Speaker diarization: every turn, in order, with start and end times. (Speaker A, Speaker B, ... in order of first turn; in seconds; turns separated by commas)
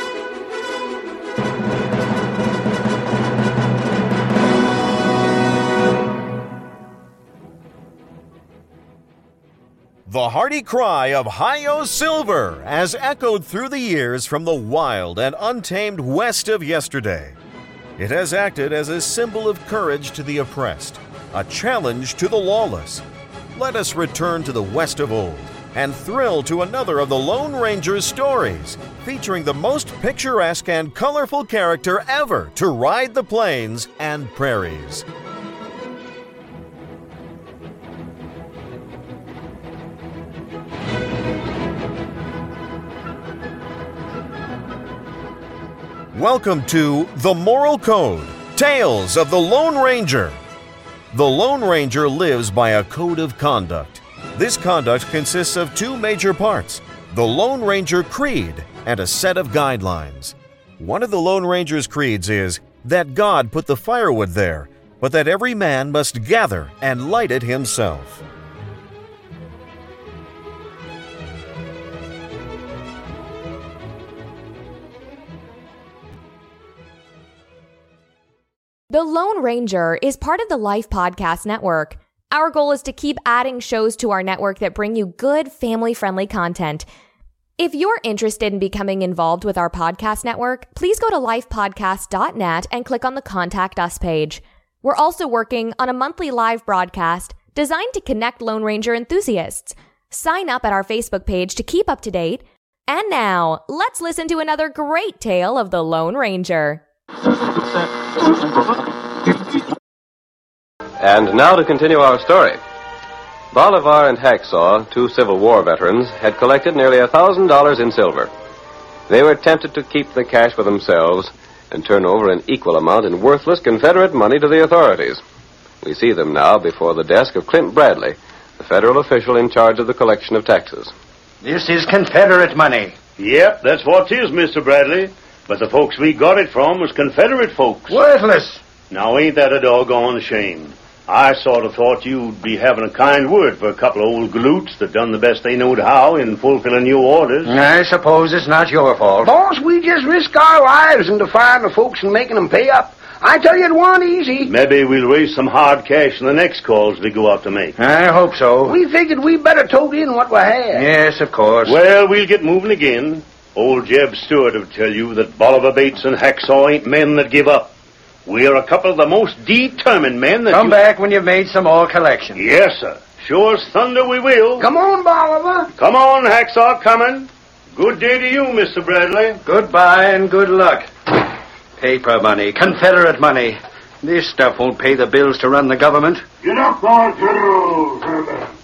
Speaker A: 10.1-17.4, Speaker A: 18.0-35.0, Speaker A: 46.1-50.4, Speaker A: 51.1-68.2, Speaker B: 78.9-86.9, Speaker B: 87.6-106.8, Speaker C: 111.0-112.6, Speaker C: 113.5-118.3, Speaker C: 119.1-125.2, Speaker C: 125.8-130.9, Speaker D: 131.4-132.9, Speaker E: 133.2-138.0, Speaker D: 137.9-138.6, Speaker E: 138.9-147.6, Speaker D: 147.5-149.3, Speaker F: 149.2-154.5, Speaker E: 154.4-157.7, Speaker D: 157.8-158.8, Speaker F: 158.7-160.9, Speaker D: 160.7-161.8, Speaker E: 161.7-167.7, Speaker E: 168.3-170.8, Speaker D: 170.5-172.4, Speaker E: 172.4-174.7, Speaker F: 174.6-175.7, Speaker E: 175.8-179.4, Speaker D: 179.4-180.9, Speaker D: 181.8-186.2, Speaker E: 186.4-188.3